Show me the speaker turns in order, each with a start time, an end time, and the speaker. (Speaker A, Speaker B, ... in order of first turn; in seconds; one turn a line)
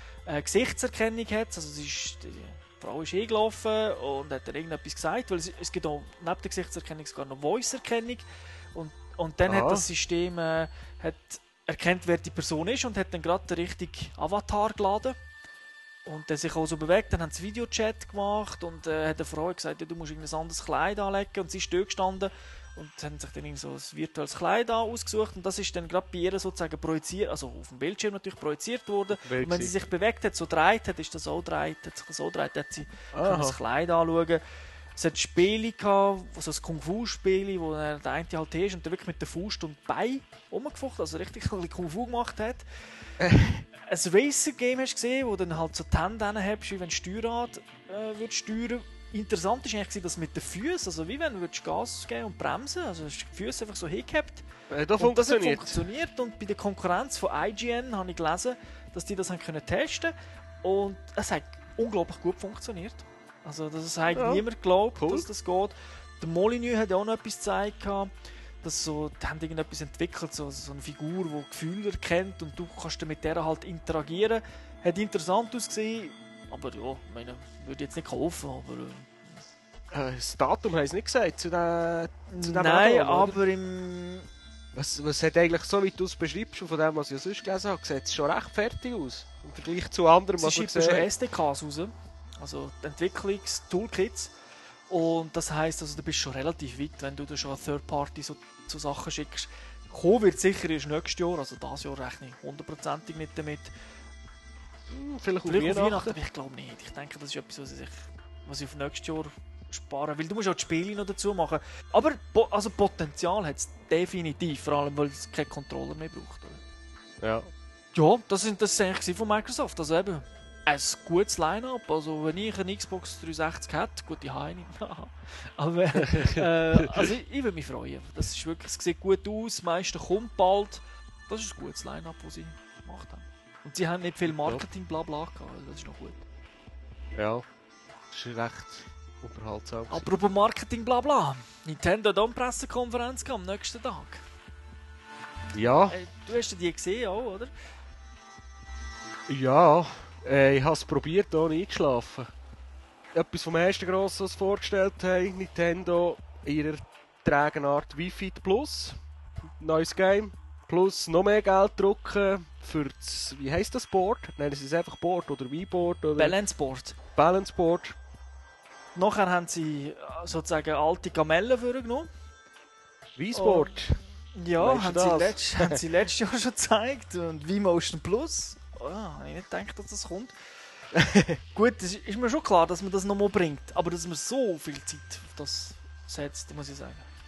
Speaker A: 0.3-15.2
Speaker B: 9.5-9.8
Speaker A: 16.1-34.4
Speaker B: 29.2-29.8
Speaker B: 33.1-33.6
Speaker A: 35.0-42.6
Speaker B: 43.2-43.6
Speaker A: 43.8-68.1
Speaker B: 54.7-55.8
Speaker B: 64.1-64.5
Speaker B: 65.0-65.3
Speaker A: 68.6-79.5
Speaker B: 79.9-83.4
Speaker A: 82.3-84.3
Speaker B: 84.7-91.1
Speaker A: 90.4-94.3
Speaker A: 94.9-103.7
Speaker B: 104.9-106.2
Speaker A: 105.5-116.6
Speaker B: 117.2-117.5
Speaker A: 117.9-136.2
Speaker B: 126.0-127.1
Speaker B: 134.3-134.6
Speaker B: 137.2-137.4
Speaker B: 138.1-140.1
Speaker A: 139.9-144.2
Speaker B: 145.5-146.0
Speaker A: 145.9-147.5
Speaker B: 149.3-152.3
Speaker B: 153.1-159.0
Speaker B: 159.6-166.4
Speaker A: 166.2-167.0
Speaker B: 167.2-168.0
Speaker A: 169.0-172.1
Speaker B: 173.2-174.0
Speaker A: 173.3-173.7
Speaker A: 174.3-180.3
Speaker B: 174.6-175.8
Speaker B: 180.9-181.4
Speaker A: 181.5-187.1